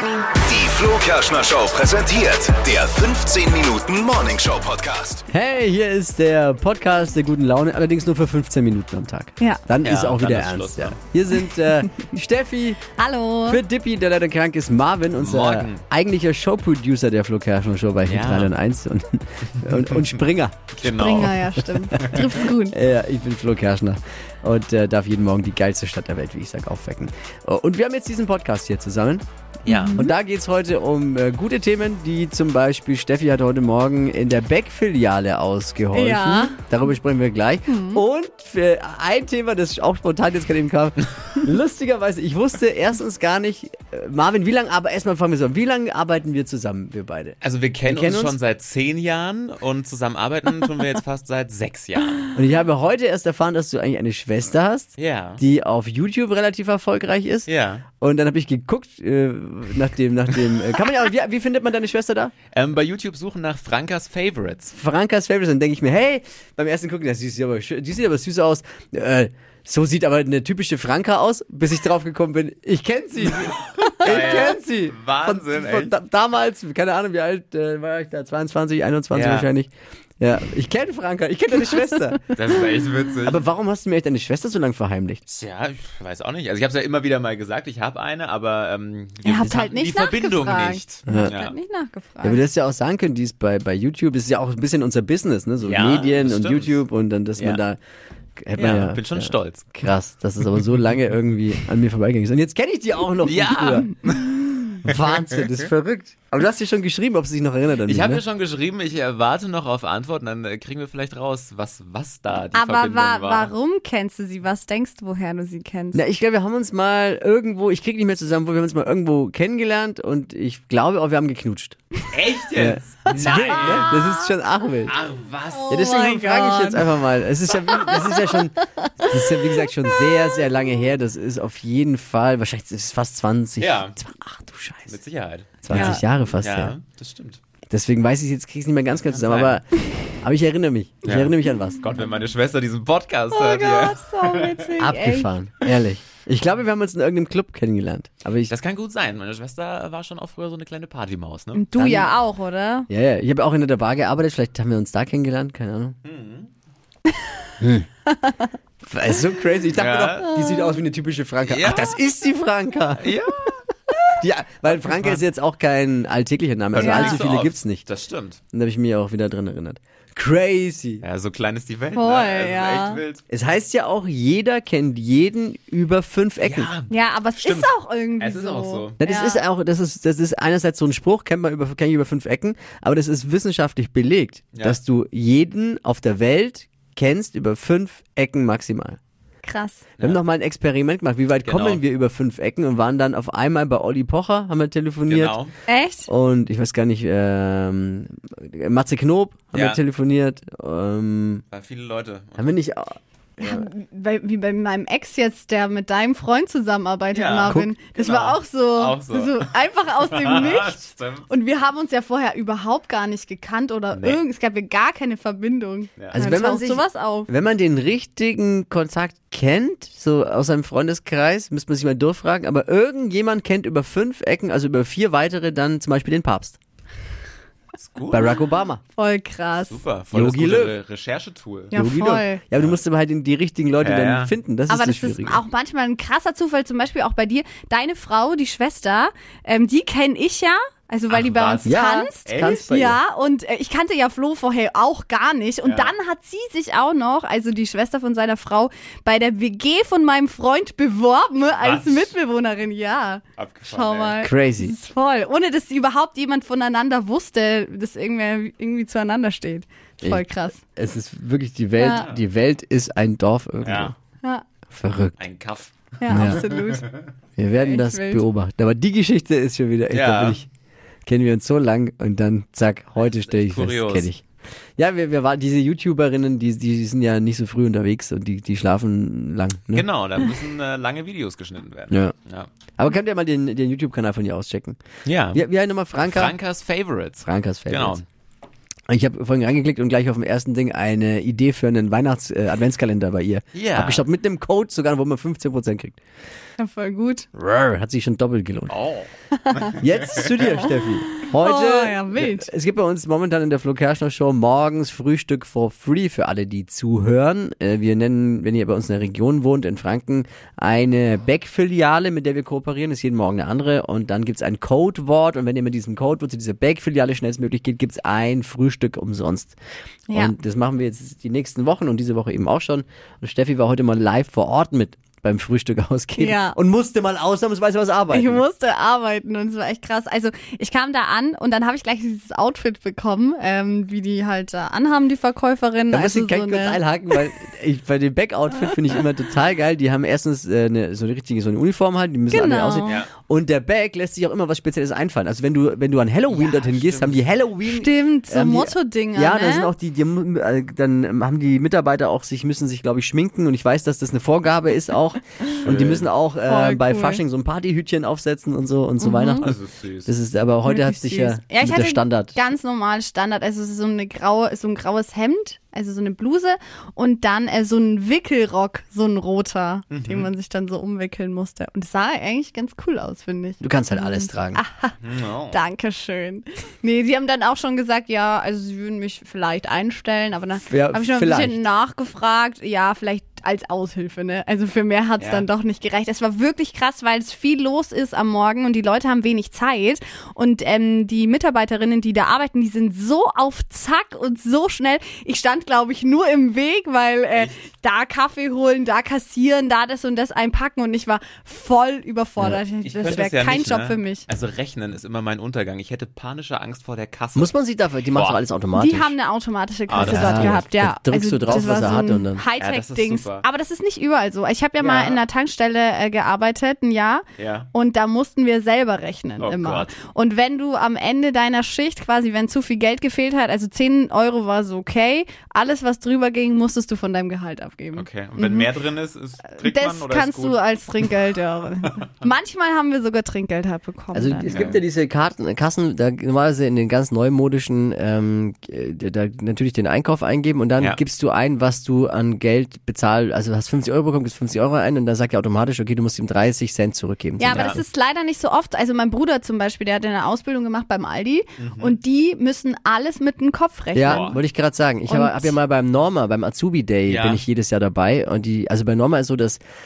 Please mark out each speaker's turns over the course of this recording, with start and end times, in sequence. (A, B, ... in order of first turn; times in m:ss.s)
0:00.4-0:05.2 A
0:05.3-0:12.8 B
0:09.8-0:11.0 C
0:13.0-0:13.6 D
0:13.5-0:20.7 B
0:15.2-0:15.8 C
0:18.1-0:18.5 C
0:20.8-0:21.4 C
0:20.8-0:22.8 D
0:21.6-0:29.2 B
0:29.7-0:30.0 C
0:29.7-0:30.1 D
0:29.9-0:48.4 B
0:35.9-0:36.6 D
0:37.7-0:38.0 D
0:47.4-0:52.3 C
0:52.3-1:02.3 B
0:55.0-0:55.4 C
0:57.5-0:57.9 C
1:02.5-1:04.8 C
1:04.7-1:22.3 B
1:13.8-1:15.9 C
1:19.1-1:19.5 C
1:22.3-1:23.4 C
1:23.2-1:25.2 B
1:25.3-1:31.5 C
1:29.2-1:32.4 D
1:31.1-1:31.4 B
1:32.2-1:37.8 B
1:35.6-1:36.8 C
1:37.4-1:37.6 C
1:38.4-1:43.9 B
1:38.6-1:39.7 C
1:43.2-1:45.7 C
1:44.8-1:48.2 B
1:47.8-1:53.5 C
1:52.5-1:56.0 D
1:55.9-2:01.8 B
2:02.1-2:04.0 C
2:02.5-2:05.0 B
2:04.8-2:05.8 C
2:05.5-2:07.0 D
2:05.7-2:14.9 B
2:07.5-2:09.3 D
2:13.6-2:14.0 C
2:14.9-2:17.4 C
2:15.6-2:16.8 B
2:15.7-2:16.0 D
2:17.7-2:21.8 B
2:19.0-2:19.6 C
2:21.0-2:24.7 C
2:23.3-2:25.3 D
2:24.8-2:28.5 B
2:28.5-2:31.7 C
2:31.5-2:32.9 D
2:31.8-2:32.2 B
2:32.9-2:36.0 B
2:36.0-2:36.5 C
2:37.6-2:37.9 B
2:38.1-2:38.5 D
2:38.8-2:43.2 B
2:39.8-2:40.4 C
2:41.4-2:41.9 C
2:43.0-2:43.6 C
2:44.2-2:47.8 B
2:44.7-2:45.2 C
2:46.7-2:48.4 C
2:46.8-2:47.2 D
2:48.5-2:51.0 B
2:51.0-2:53.2 C
2:51.9-2:53.0 D
2:53.3-2:56.7 B
2:56.4-2:59.0 C
2:56.9-2:59.4 D
2:59.0-3:09.0 B
3:09.4-3:09.8 D
3:10.0-3:15.4 B
3:11.4-3:11.8 C
3:15.1-3:15.5 C
3:15.7-3:16.1 D
3:16.1-3:21.4 B
3:19.5-3:19.8 C
3:21.5-3:22.5 C
3:22.4-3:23.7 B
3:23.4-3:37.3 D
3:27.1-3:31.3 C
3:27.5-3:27.7 B
3:33.9-3:34.2 C
3:36.1-3:46.6 B
3:47.8-3:48.4 C
3:48.1-3:48.8 B
3:48.9-3:49.8 D
3:49.7-3:51.8 C
3:50.1-3:50.8 B
3:51.7-3:52.4 D
3:51.7-3:55.4 B
3:53.8-3:54.3 C
3:54.7-4:20.6 D
4:01.1-4:02.5 C
4:01.6-4:03.0 B
4:05.6-4:05.9 C
4:11.6-4:12.2 C
4:13.4-4:14.2 C
4:14.2-4:14.7 B
4:20.0-4:23.9 B
4:21.8-4:22.1 D
4:21.9-4:22.2 C
4:23.6-4:23.9 C
4:24.7-4:25.2 B
4:25.2-4:26.4 C
4:26.0-4:26.9 D
4:26.1-4:26.5 B
4:27.4-4:30.5 B
4:27.5-4:28.2 D
4:29.9-4:30.4 C
4:31.1-4:34.2 B
4:33.0-4:34.1 C
4:34.8-4:39.9 B
4:39.7-4:42.5 C
4:42.8-4:44.8 B
4:45.1-4:45.4 C
4:45.3-4:46.4 B
4:46.0-4:48.0 C
4:47.2-4:48.0 B
4:48.9-4:56.0 B
4:53.5-4:54.0 C
4:56.6-4:57.3 D
4:57.3-4:58.7 B
4:58.7-5:00.4 C
4:59.4-4:59.7 D
4:59.8-5:19.6 B
5:01.2-5:02.5 D
5:20.1-5:20.3 D
5:20.1-5:28.4 B
5:26.2-5:26.6 D
5:28.1-5:37.2 D
5:35.9-6:02.4 B
5:42.3-5:43.0 D
5:46.3-5:47.3 C
5:47.6-5:49.7 D
5:55.6-5:56.1 C
5:56.5-5:57.2 D
5:59.0-5:59.4 D
5:59.4-6:00.1 C
6:00.6-6:15.0 D
6:09.9-6:10.3 C
6:13.6-6:14.6 B
6:15.0-6:15.6 C
6:15.5-6:44.3 D
6:20.6-6:21.6 B
6:25.2-6:25.4 C
6:37.3-6:37.6 C
6:42.8-6:47.6 C
6:47.4-6:49.2 B
6:48.1-6:48.4 C
6:48.8-7:08.7 D
6:49.9-6:50.6 C
6:50.0-6:52.4 B
6:51.5-6:53.4 C
6:54.8-6:55.2 C
6:54.8-6:55.1 B
6:57.4-6:57.7 C
6:59.4-6:59.9 C
7:07.9-7:11.1 C
7:09.6-7:14.6 D
7:14.1-7:27.8 B
7:14.5-7:14.8 C
7:27.4-7:34.4 D
7:27.4-7:27.8 C
7:31.6-7:32.0 C
7:33.9-7:39.6 B
7:34.0-7:34.4 C
7:35.1-7:35.6 D
7:37.1-7:37.4 C